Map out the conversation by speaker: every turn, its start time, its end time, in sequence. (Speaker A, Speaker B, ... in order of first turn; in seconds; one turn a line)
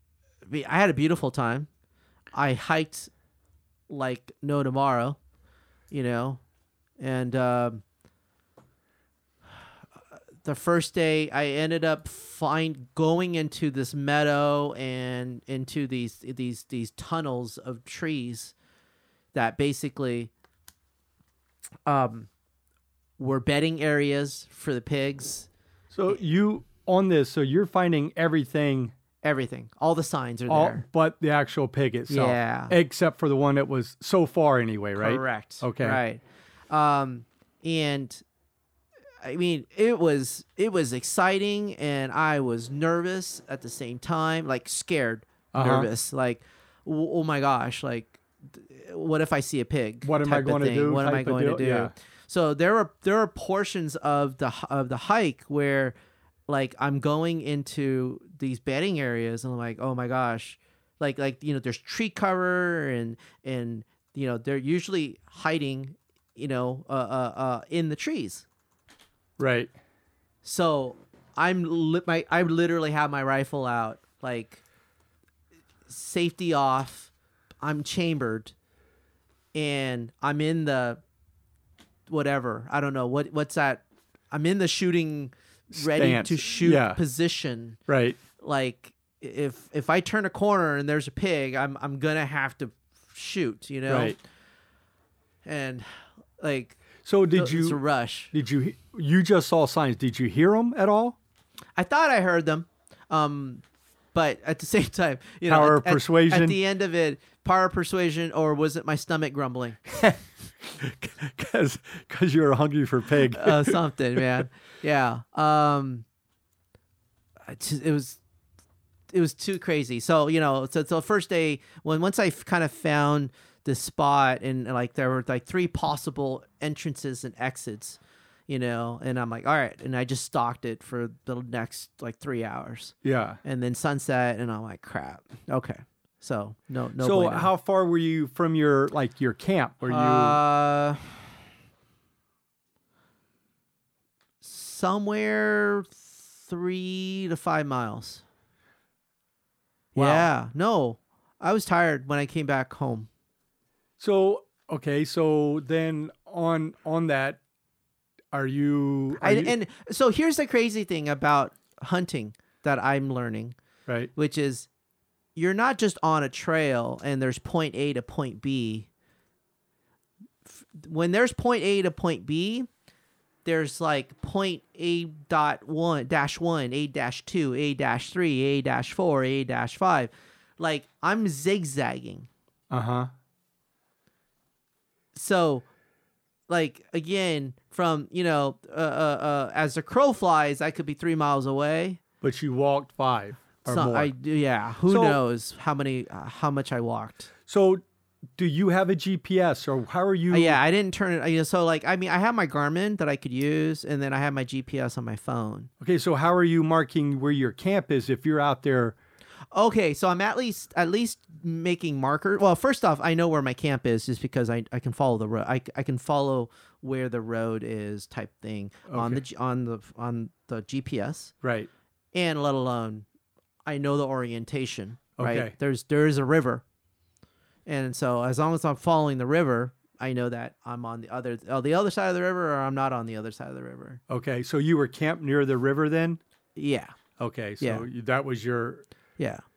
Speaker A: 0.5-1.7
Speaker A: 2.3-3.1
Speaker A: 3.9-5.2
Speaker A: 5.9-6.4
Speaker A: 7.0-7.8
Speaker A: 10.4-18.5
Speaker A: 19.3-20.3
Speaker A: 21.9-22.3
Speaker A: 23.2-25.5
Speaker B: 25.9-28.9
Speaker A: 29.2-30.8
Speaker B: 30.5-36.0
Speaker A: 32.1-32.8
Speaker A: 35.0-38.2
Speaker A: 39.2-55.9
Speaker B: 45.5-45.9
Speaker B: 50.0-51.9
Speaker A: 56.5-68.5
Speaker B: 69.4-69.7
Speaker A: 70.4-74.6
Speaker A: 75.9-78.5
Speaker A: 79.5-81.0
Speaker A: 82.1-87.8
Speaker B: 85.7-87.0
Speaker B: 87.9-88.2
Speaker A: 88.4-94.2
Speaker B: 93.9-94.2
Speaker A: 95.4-95.9
Speaker A: 96.4-96.8
Speaker B: 97.0-97.8
Speaker A: 97.3-98.3
Speaker B: 98.3-101.2
Speaker A: 101.8-103.6
Speaker A: 104.1-109.8
Speaker B: 105.5-106.6
Speaker B: 109.9-114.4
Speaker A: 113.3-116.0
Speaker A: 117.5-118.2
Speaker A: 119.1-137.5
Speaker B: 133.0-133.4
Speaker B: 137.0-140.4
Speaker A: 139.9-141.1
Speaker A: 144.4-148.2
Speaker B: 149.9-150.3
Speaker A: 149.9-153.1
Speaker B: 154.0-157.4
Speaker B: 158.3-159.5
Speaker A: 159.2-163.6
Speaker A: 164.1-164.7
Speaker A: 165.3-168.9
Speaker A: 170.6-172.7
Speaker A: 173.4-182.3
Speaker B: 182.7-183.1
Speaker A: 185.1-185.7
Speaker A: 186.5-192.0
Speaker B: 192.2-194.1
Speaker A: 193.7-197.3
Speaker B: 194.9-195.2
Speaker B: 197.5-197.8
Speaker B: 198.4-200.6
Speaker A: 200.3-205.7
Speaker B: 205.8-208.9
Speaker A: 209.5-221.3
Speaker B: 218.9-219.2
Speaker B: 221.4-221.7
Speaker A: 222.1-223.1
Speaker A: 223.7-226.6
Speaker B: 225.2-225.5
Speaker A: 227.7-234.0
Speaker B: 234.1-236.2
Speaker A: 236.6-236.9
Speaker B: 237.2-238.8
Speaker A: 237.6-237.8